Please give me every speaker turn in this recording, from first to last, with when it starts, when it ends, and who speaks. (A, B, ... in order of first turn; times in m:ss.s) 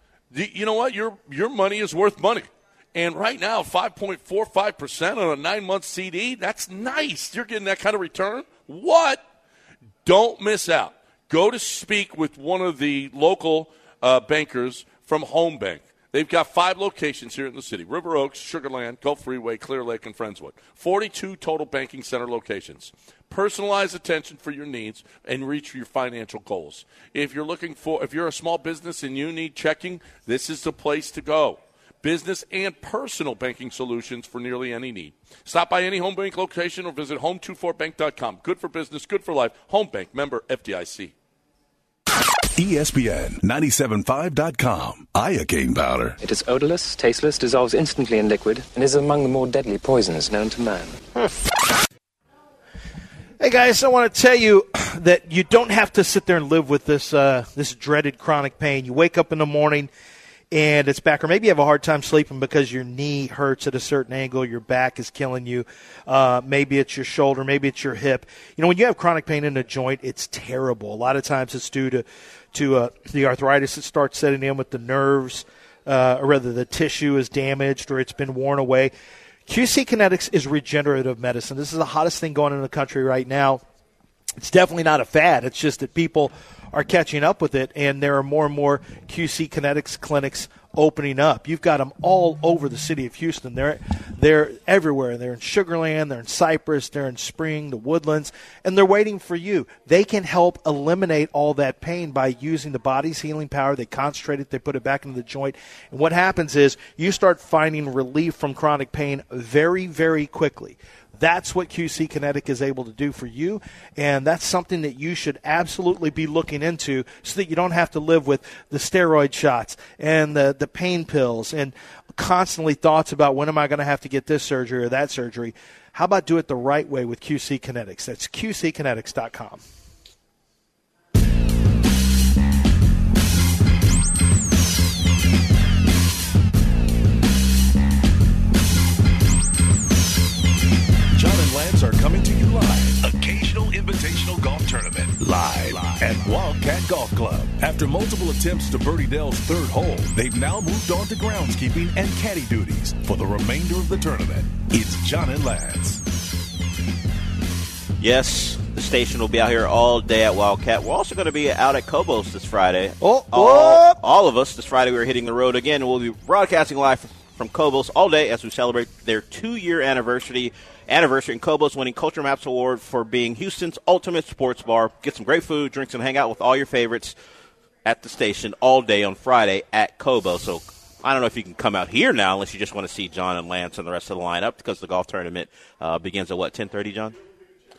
0:00.3-0:09.2 A
0:10.0-0:41.1 A
0:42.6-0:46.2 B
0:46.2-0:51.0 C
0:53.4-0:59.9 D
1:00.5-1:18.9 D
1:19.5-1:23.6 D
1:24.4-2:09.6 D
2:21.1-2:36.0 B
2:38.0-2:57.2 E
2:43.0-2:44.0 D
2:57.8-3:07.2 E